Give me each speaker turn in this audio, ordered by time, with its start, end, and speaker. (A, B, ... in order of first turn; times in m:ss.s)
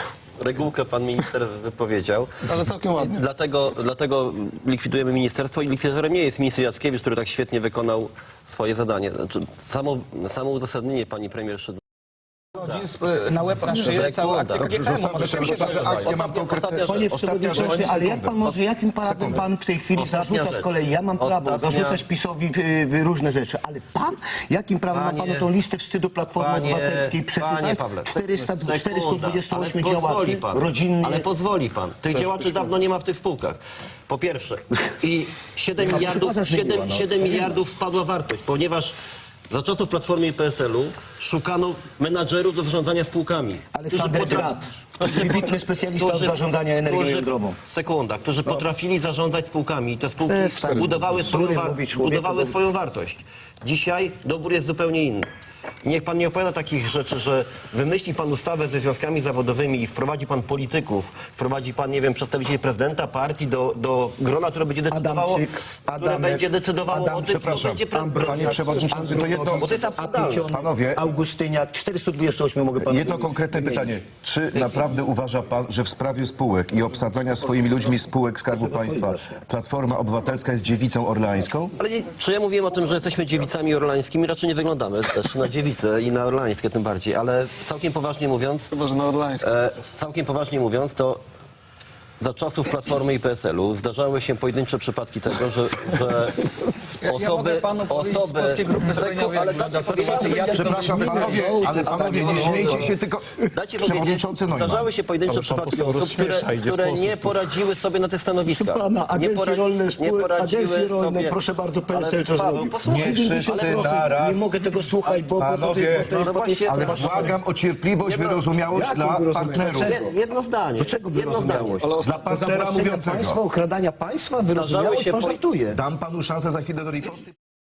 0:00.4-0:11.8 A
0:02.5-0:03.2 B
0:12.5-0:16.3 C
0:13.7-0:18.6 A
0:14.5-0:18.4 D
0:16.7-0:31.3 E
0:19.0-0:19.4 D
0:19.9-0:22.0 A
0:24.9-0:25.5 A
0:26.4-0:39.0 A
0:32.2-0:32.6 B
0:35.8-0:37.6 E
0:39.5-0:55.3 A
0:43.7-0:47.6 E
0:50.3-0:52.6 E
0:55.8-1:08.8 A
1:04.9-1:07.3 E
1:07.3-1:09.7 D
1:07.9-1:14.0 E
1:09.5-1:10.5 A
1:10.4-1:11.1 D
1:12.8-1:21.7 D
1:14.5-1:14.9 E
1:18.5-1:19.4 E
1:21.8-1:28.7 A
1:28.7-1:29.6 B
1:29.4-1:31.2 A
1:32.2-1:42.9 A
1:37.0-1:42.0 C
1:40.4-1:44.9 D
1:41.1-1:42.9 E
1:43.5-1:51.4 A
1:45.8-1:47.0 B
1:48.4-1:57.4 E
1:51.9-1:54.2 A
1:52.8-1:54.5 D
1:55.1-2:00.0 D
1:56.1-1:57.4 A
1:58.0-1:58.4 A
1:58.7-2:00.1 E
1:59.7-2:01.8 A
2:00.8-2:05.8 E
2:01.8-2:02.2 B
2:02.0-2:03.4 D
2:04.5-2:05.4 A
2:05.7-2:07.3 D